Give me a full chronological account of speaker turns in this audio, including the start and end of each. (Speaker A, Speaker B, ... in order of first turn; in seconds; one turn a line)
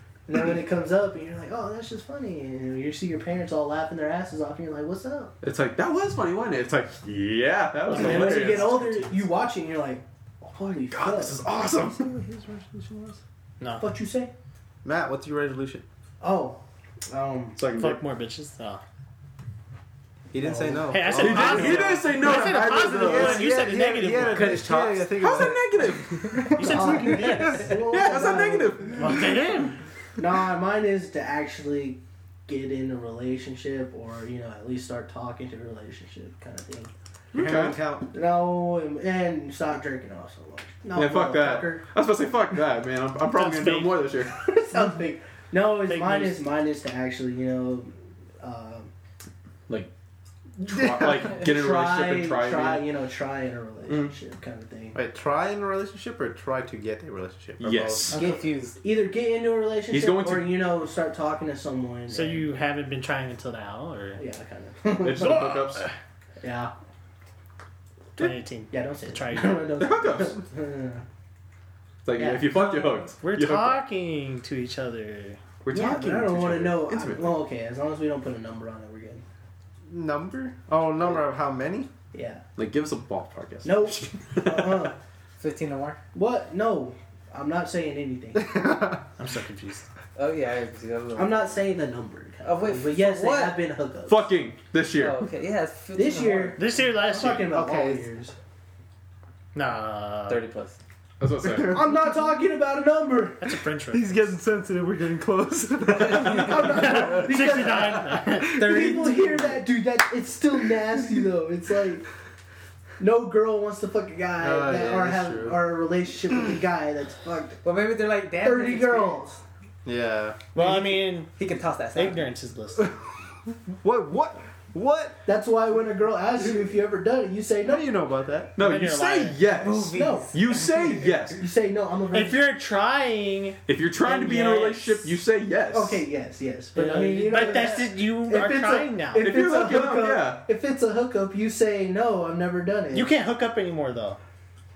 Speaker A: 0.3-5.3
Speaker B: 5.4-8.8
Speaker C: 7.9-9.3
Speaker A: 7.9-11.4
Speaker B: 10.9-12.1
Speaker D: 11.9-13.2
Speaker C: 13.6-13.9
Speaker A: 13.8-14.3
Speaker D: 14.8-15.8
Speaker A: 16.2-17.6
Speaker B: 17.6-18.0
Speaker C: 17.7-18.8
Speaker D: 20.3-27.7
Speaker A: 20.4-21.6
Speaker C: 20.9-24.8
Speaker B: 21.1-23.6
Speaker E: 24.2-25.6
Speaker B: 25.1-26.6
Speaker C: 26.4-27.8
Speaker A: 26.5-29.1
Speaker B: 27.9-29.3
Speaker C: 28.9-29.8
Speaker A: 30.2-36.9
Speaker B: 37.3-37.8
Speaker D: 37.3-38.1
Speaker A: 38.1-41.9
Speaker B: 40.9-44.3
Speaker C: 43.3-44.1
Speaker A: 44.3-48.9
Speaker C: 45.9-46.5
Speaker B: 50.6-52.9
Speaker A: 51.0-55.0
Speaker B: 53.9-54.1
Speaker D: 54.9-58.2
Speaker B: 57.6-58.2
Speaker E: 58.1-58.8
Speaker A: 58.1-62.5
Speaker B: 59.9-60.6
Speaker C: 62.1-64.2
Speaker A: 64.2-65.5
Speaker B: 65.0-65.9
Speaker A: 66.4-66.7
Speaker C: 68.2-69.8
Speaker A: 68.7-71.0
Speaker B: 69.8-70.4
Speaker B: 72.0-73.8
Speaker A: 72.2-73.0
Speaker C: 73.1-75.4
Speaker B: 75.6-77.4
Speaker A: 75.7-79.2
Speaker D: 79.9-81.9
Speaker A: 82.1-82.4
Speaker B: 82.6-84.9
Speaker A: 83.6-85.0
Speaker E: 85.4-86.0
Speaker A: 86.1-88.7
Speaker D: 88.4-89.0
Speaker C: 89.2-89.9
Speaker E: 90.2-91.6
Speaker A: 91.1-94.3
Speaker E: 92.4-93.6
Speaker B: 94.1-95.3
Speaker E: 94.9-96.6
Speaker A: 95.9-98.3
Speaker C: 96.6-97.5
Speaker D: 97.5-98.1
Speaker C: 99.5-100.5
Speaker E: 100.3-100.8
Speaker B: 101.2-101.8
Speaker D: 101.4-101.9
Speaker A: 101.6-103.5
Speaker C: 103.4-104.4
Speaker D: 103.9-108.4
Speaker A: 106.0-112.1
Speaker C: 106.6-109.0
Speaker E: 108.5-109.6
Speaker A: 113.0-117.6
Speaker D: 114.4-115.6
Speaker E: 117.6-119.2
Speaker A: 118.4-119.4
Speaker D: 119.8-120.4
Speaker C: 120.5-121.3
Speaker E: 120.5-122.3
Speaker C: 121.9-122.9
Speaker D: 123.8-125.2
Speaker A: 125.3-127.9
Speaker D: 127.6-128.6
Speaker B: 128.6-131.4
Speaker C: 128.6-129.4
Speaker E: 129.5-130.8
Speaker A: 129.9-130.3
Speaker A: 131.3-132.4
Speaker C: 132.1-135.2
Speaker B: 133.7-136.0
Speaker A: 135.7-143.1
Speaker E: 136.8-137.4
Speaker C: 137.0-139.3
Speaker B: 139.2-140.4
Speaker C: 142.9-144.2